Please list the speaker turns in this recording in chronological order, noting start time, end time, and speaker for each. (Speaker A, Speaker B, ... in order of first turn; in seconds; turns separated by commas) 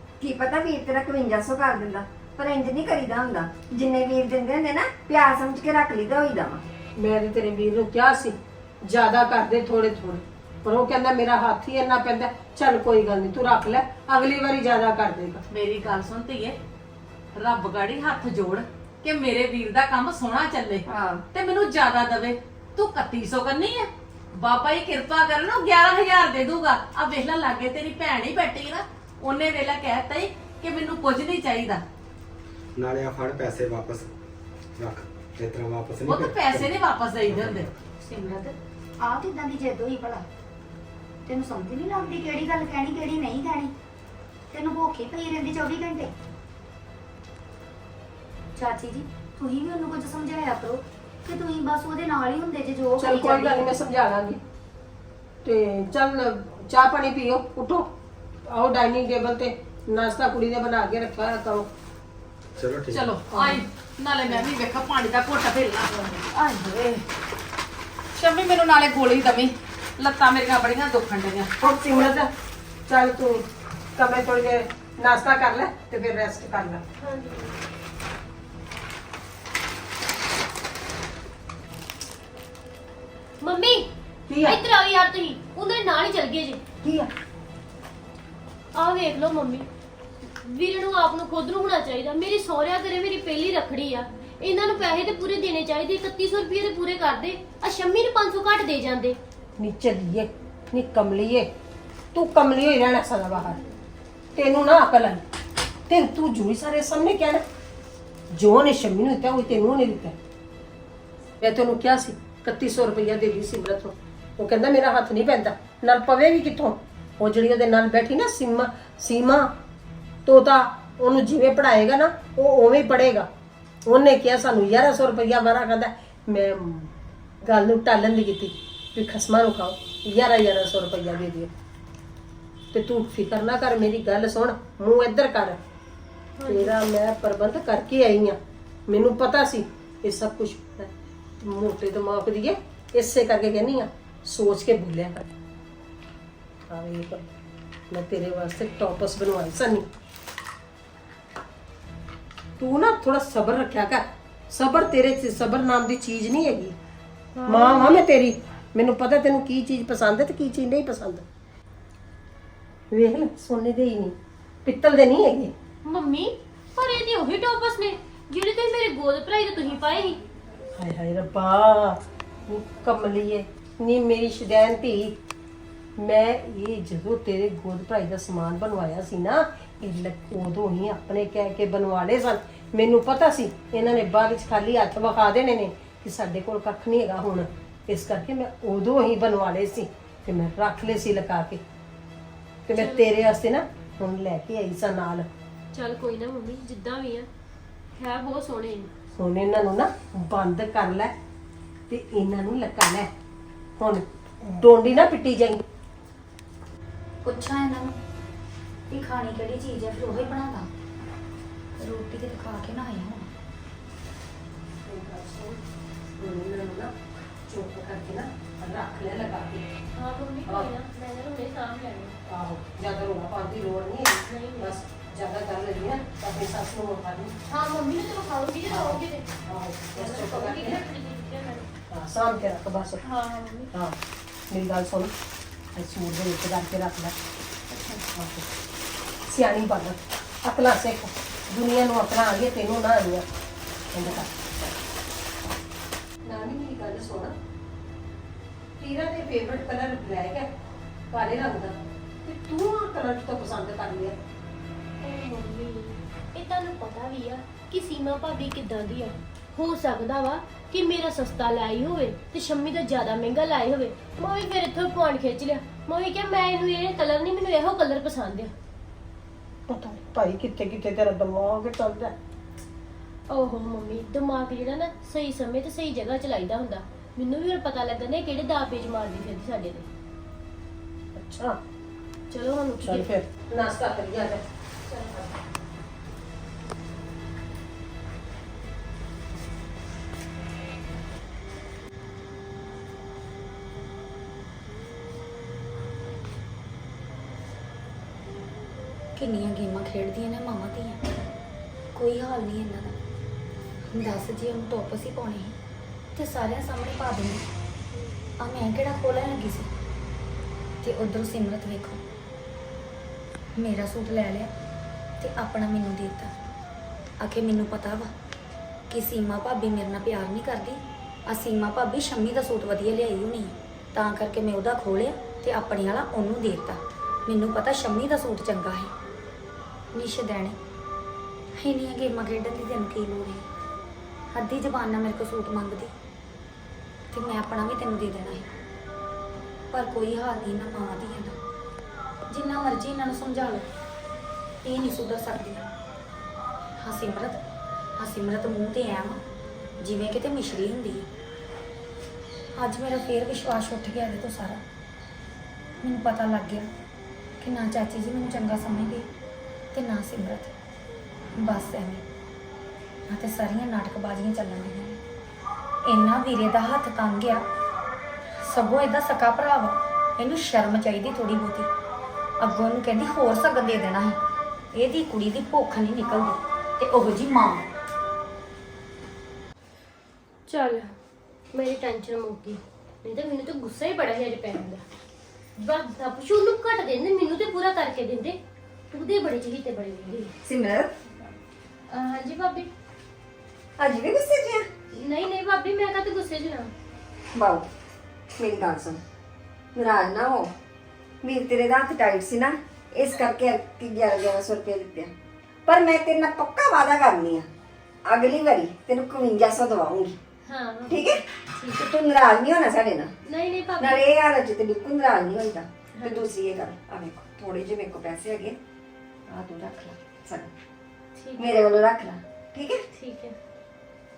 Speaker A: 0.2-6.6, Speaker B: 7.0-15.4, Speaker C: 15.5-16.6, Speaker C: 17.4-31.8, Speaker A: 20.9-21.2, Speaker D: 32.8-34.1, Speaker D: 34.8-36.7, Speaker C: 36.1-37.7, Speaker D: 37.3-37.7, Speaker E: 38.0-40.3, Speaker E: 41.3-43.7, Speaker E: 44.5-46.1, Speaker E: 48.6-53.7, Speaker B: 53.0-54.4, Speaker B: 55.4-57.9, Speaker B: 58.5-61.7, Speaker D: 62.6-63.1, Speaker C: 62.9-67.0, Speaker B: 63.3-63.6, Speaker C: 68.2-71.7, Speaker B: 71.6-72.3, Speaker B: 72.9-73.5, Speaker B: 74.0-76.8, Speaker F: 77.0-77.5, Speaker F: 83.4-83.9, Speaker B: 84.3-84.6, Speaker F: 84.4-86.6, Speaker F: 88.8-89.7, Speaker F: 90.4-99.2, Speaker B: 99.6-101.5, Speaker B: 102.1-103.6, Speaker B: 104.3-105.2, Speaker B: 105.9-107.4, Speaker B: 108.3-110.2, Speaker B: 111.4-119.5, Speaker B: 120.2-123.3, Speaker B: 123.9-126.9, Speaker B: 127.5-131.5, Speaker B: 132.7-135.6, Speaker F: 136.4-136.8, Speaker B: 136.5-138.4, Speaker B: 138.9-140.9, Speaker B: 141.4-145.3, Speaker B: 146.7-147.2, Speaker B: 147.9-149.9, Speaker B: 152.6-156.8, Speaker F: 157.3-158.1, Speaker B: 157.5-161.2, Speaker B: 162.9-165.5, Speaker F: 165.8-170.2, Speaker B: 170.8-175.2, Speaker B: 176.0-191.6, Speaker B: 192.7-195.3, Speaker F: 192.7-193.1, Speaker F: 195.7-197.3, Speaker F: 198.0-198.9, Speaker B: 199.2-201.1, Speaker B: 201.9-203.1, Speaker B: 203.8-205.6, Speaker E: 207.2-207.9, Speaker E: 208.9-210.7, Speaker E: 211.8-213.3, Speaker B: 214.9-215.6, Speaker B: 216.2-216.9, Speaker B: 217.5-219.6, Speaker F: 220.0-222.2, Speaker B: 222.3-227.3, Speaker F: 224.3-224.8, Speaker F: 227.5-229.3, Speaker B: 229.5-230.8, Speaker F: 229.9-231.7, Speaker B: 231.9-233.0, Speaker F: 233.0-233.7, Speaker B: 234.5-235.1, Speaker B: 235.8-237.1, Speaker F: 237.7-238.0, Speaker B: 238.1-238.5, Speaker B: 239.3-243.2, Speaker B: 243.9-244.5, Speaker B: 246.3-247.3, Speaker B: 248.8-250.5, Speaker B: 251.1-254.2, Speaker F: 255.0-268.5, Speaker B: 269.7-272.1, Speaker F: 273.3-279.9, Speaker B: 281.1-281.6, Speaker F: 282.3-283.1, Speaker B: 282.8-285.3, Speaker E: 299.2-301.0, Speaker E: 301.9-303.0, Speaker E: 303.9-305.6, Speaker E: 306.1-307.5, Speaker E: 308.4-309.7, Speaker E: 310.8-312.0, Speaker E: 313.6-314.5, Speaker E: 315.2-316.3, Speaker E: 317.2-318.1, Speaker E: 318.9-328.9, Speaker E: 329.9-330.6, Speaker E: 331.6-333.4, Speaker E: 334.3-335.9, Speaker E: 337.1-338.5, Speaker E: 339.7-341.4, Speaker E: 342.3-343.7, Speaker E: 344.6-345.7, Speaker E: 346.8-347.4, Speaker E: 348.0-349.2, Speaker E: 349.8-351.1, Speaker E: 352.6-354.6, Speaker E: 355.8-356.7, Speaker E: 357.4-359.1, Speaker E: 359.7-360.5, Speaker E: 361.4-362.0, Speaker E: 363.1-365.0, Speaker E: 365.9-367.4, Speaker E: 368.4-371.7, Speaker E: 372.4-374.2, Speaker E: 374.7-377.6, Speaker F: 380.5-380.9, Speaker F: 381.5-384.8, Speaker F: 385.6-388.4, Speaker F: 388.9-390.3, Speaker A: 390.4-390.9, Speaker F: 391.9-392.7, Speaker A: 393.8-394.7, Speaker F: 394.9-396.7, Speaker A: 397.3-397.6, Speaker A: 398.4-399.0, Speaker A: 399.8-400.5, Speaker A: 401.2-405.1, Speaker A: 405.7-407.5, Speaker A: 408.1-410.2, Speaker F: 410.5-411.0, Speaker A: 410.9-411.2, Speaker F: 411.6-411.8, Speaker A: 411.7-413.1, Speaker F: 413.3-414.0, Speaker A: 413.8-418.6, Speaker F: 415.9-416.3, Speaker A: 419.3-420.5, Speaker F: 421.2-421.7, Speaker A: 421.4-422.8, Speaker F: 422.9-423.4